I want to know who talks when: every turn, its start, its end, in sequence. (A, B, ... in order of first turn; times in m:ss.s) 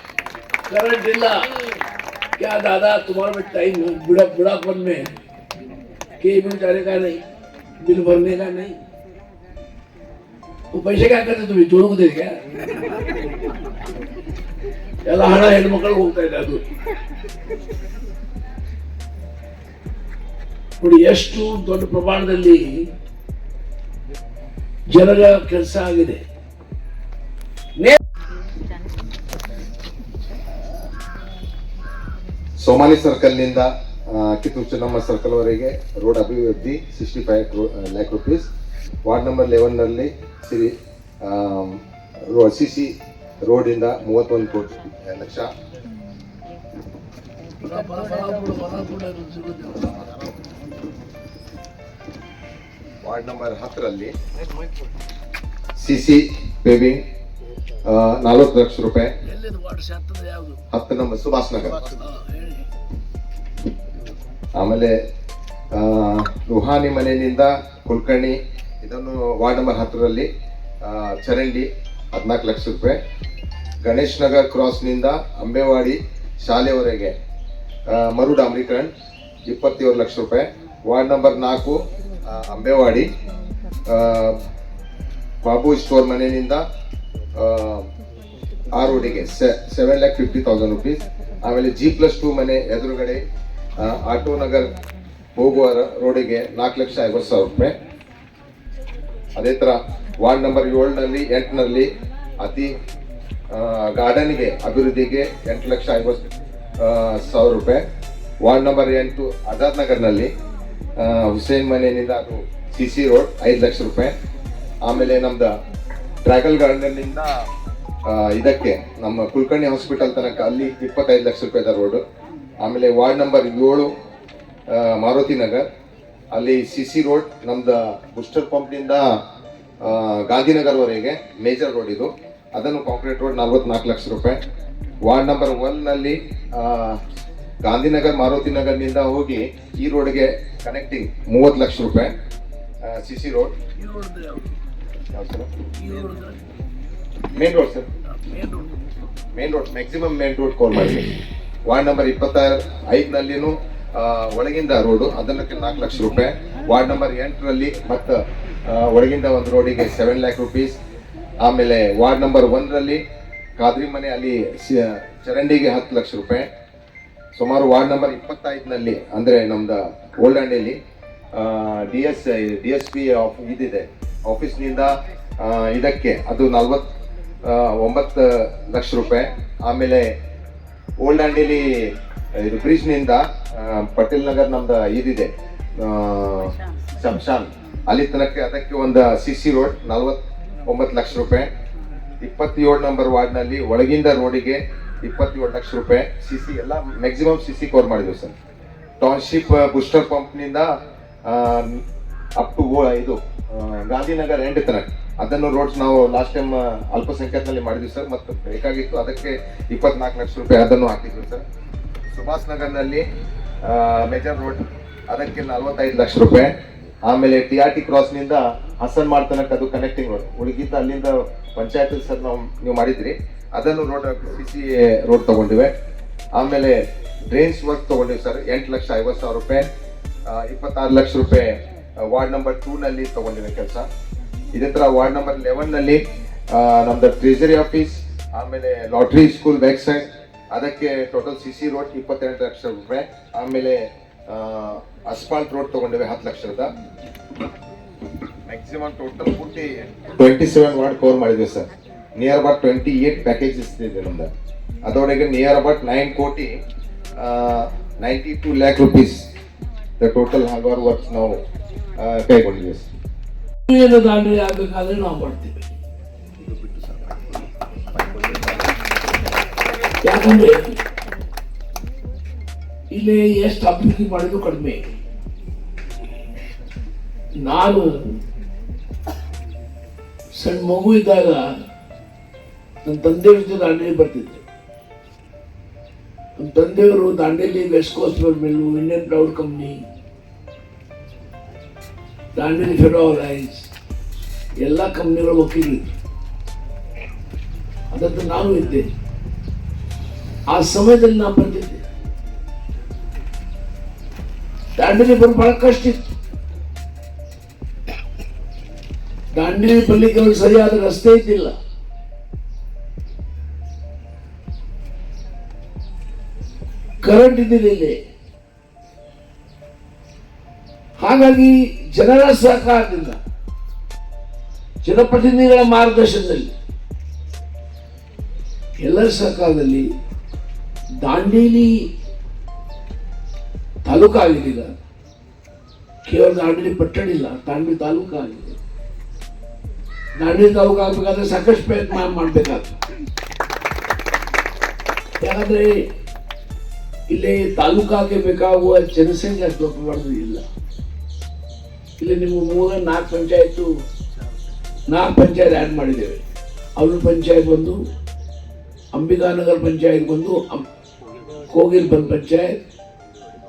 0:00.7-0:01.3 A
0:02.4-0:05.1 A
0:06.2-0:07.2 A
0:07.8-0:08.8 A
0:10.7-0:12.4 A
0:15.0-0:16.6 A
0:20.8-0:22.7 A
0:24.9-0:26.2 A
0:32.6-0:38.5 B
0:39.0-0:40.7 B
0:41.2-0:41.8 B
0:42.3-0:42.9 B
0:43.4-0:45.5 B
0:47.6-0:50.0 A
0:53.0-0:54.1 B
0:55.8-0:57.0 B
0:57.8-0:59.1 B
0:59.2-1:00.6 A
1:00.7-1:01.8 B
1:01.9-1:02.6 A
1:04.6-1:05.0 B
1:05.7-1:10.3 B
1:10.8-1:13.0 B
1:13.8-1:17.1 B
1:17.9-1:18.9 B
1:19.5-1:21.8 B
1:22.3-1:23.0 B
1:23.9-1:24.4 B
1:25.4-1:26.6 B
1:27.4-1:27.8 B
1:28.8-1:33.2 B
1:33.8-1:34.7 B
1:35.4-1:37.7 B
1:39.4-1:41.9 B
1:42.4-1:42.7 B
1:43.5-1:46.2 B
1:46.8-1:47.8 B
1:48.4-1:50.3 B
1:51.0-1:54.1 B
1:54.8-1:55.5 B
1:56.2-1:57.3 B
1:58.1-2:02.0 B
2:02.6-2:03.9 B
2:04.7-2:05.7 B
2:06.3-2:09.0 B
2:09.8-2:14.4 B
2:15.0-2:17.0 B
2:17.6-2:22.1 B
2:22.8-2:23.5 B
2:23.8-2:24.5 A
2:25.1-2:25.5 B
2:25.8-2:26.4 A
2:27.3-2:27.9 B
2:28.2-2:28.7 A
2:29.4-2:31.0 B
2:31.7-2:38.2 B
2:38.7-2:40.8 B
2:41.4-2:43.0 B
2:43.6-2:46.5 B
2:47.4-2:50.8 B
2:51.3-2:56.8 B
2:57.4-3:00.1 B
3:01.0-3:01.6 B
3:02.4-3:05.3 B
3:05.8-3:11.5 B
3:12.2-3:18.3 B
3:19.0-3:20.7 B
3:21.3-3:21.8 B
3:22.4-3:31.4 B
3:32.1-3:33.0 B
3:33.6-3:36.5 B
3:37.1-3:45.7 B
3:46.4-3:49.7 B
3:50.3-3:53.8 B
3:54.5-3:56.0 B
3:56.5-4:03.8 B
4:04.3-4:06.7 B
4:08.5-4:14.3 B
4:14.8-4:16.5 B
4:17.2-4:19.2 B
4:20.0-4:21.4 B
4:22.0-4:22.9 B
4:23.7-4:25.7 A
4:30.0-4:30.6 A
4:32.9-4:34.8 A
4:37.4-4:38.1 A
4:40.4-4:41.4 A
4:42.8-4:44.4 A
4:46.4-4:49.8 A
4:52.4-4:53.7 A
4:54.6-4:55.9 A
4:57.9-4:58.9 A
5:00.5-5:01.8 A
5:04.8-5:06.0 A
5:09.3-5:11.5 A
5:17.0-5:18.0 A
5:21.0-5:23.2 A
5:24.8-5:26.5 A
5:28.8-5:29.8 A
5:31.0-5:31.7 A
5:33.8-5:34.7 A
5:36.0-5:38.6 A
5:40.2-5:42.8 A
5:45.2-5:45.7 A
5:47.1-5:50.4 A
5:52.0-5:53.7 A
5:54.9-5:56.2 A
5:56.8-5:57.8 A
5:58.9-6:00.7 A
6:01.5-6:02.6 A